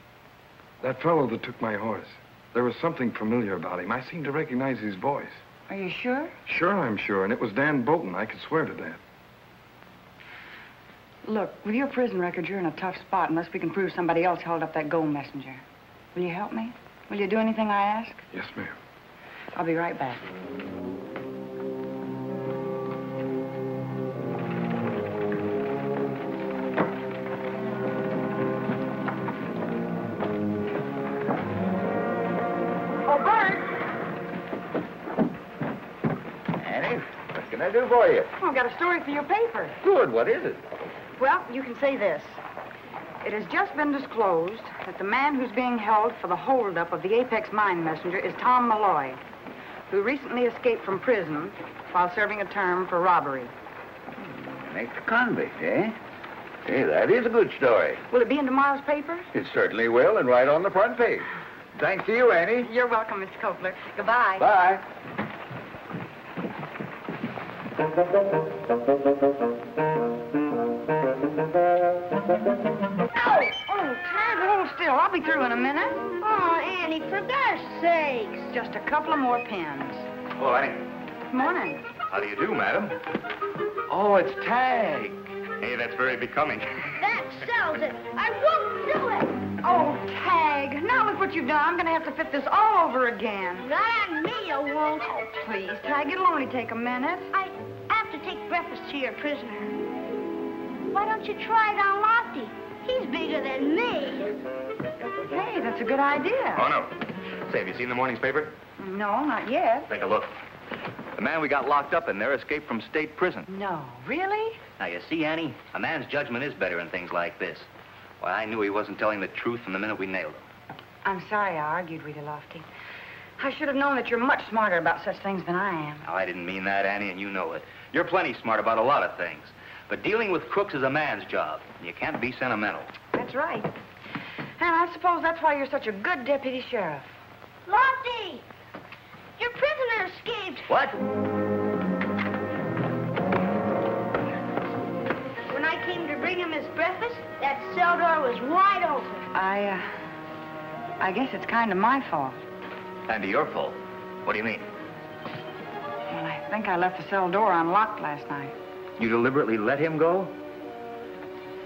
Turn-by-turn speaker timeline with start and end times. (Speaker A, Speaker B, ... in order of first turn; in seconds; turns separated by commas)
Speaker A: 0.8-5.4, Speaker B: 5.7-6.3, Speaker A: 6.5-9.0, Speaker B: 11.2-15.6, Speaker B: 16.1-18.2, Speaker A: 18.3-18.7, Speaker B: 19.5-20.2, Speaker B: 33.0-33.7, Speaker C: 36.6-38.3, Speaker B: 38.4-39.8, Speaker C: 39.8-40.6, Speaker B: 41.2-42.4, Speaker B: 43.2-49.2, Speaker B: 49.9-53.5, Speaker C: 54.4-56.0, Speaker C: 56.6-58.0, Speaker B: 58.1-59.3, Speaker C: 59.3-62.7, Speaker B: 62.6-64.5, Speaker C: 64.4-64.8, Speaker B: 73.1-76.0, Speaker D: 76.2-78.5, Speaker B: 78.5-80.1, Speaker E: 80.4-80.8, Speaker B: 81.3-81.8, Speaker E: 82.1-83.0, Speaker E: 83.9-85.0, Speaker C: 84.2-85.1, Speaker E: 85.6-86.8, Speaker D: 87.0-89.4, Speaker B: 89.6-93.7, Speaker D: 93.6-95.1, Speaker B: 95.1-97.3, Speaker D: 97.3-99.7, Speaker D: 100.9-104.3, Speaker B: 105.2-106.7, Speaker E: 106.5-106.9, Speaker E: 107.5-108.5, Speaker B: 108.8-109.9, Speaker E: 109.9-110.3, Speaker E: 111.2-113.5, Speaker B: 113.5-114.6, Speaker E: 114.8-117.7, Speaker E: 118.2-120.4, Speaker B: 121.0-122.7, Speaker B: 123.4-126.0, Speaker E: 126.0-132.9, Speaker B: 133.1-133.7, Speaker B: 134.6-137.1, Speaker D: 137.7-138.4, Speaker D: 139.4-140.7, Speaker D: 145.5-149.2, Speaker B: 149.3-149.9, Speaker B: 151.0-152.4, Speaker E: 153.1-154.7, Speaker B: 156.1-158.5, Speaker E: 159.0-160.4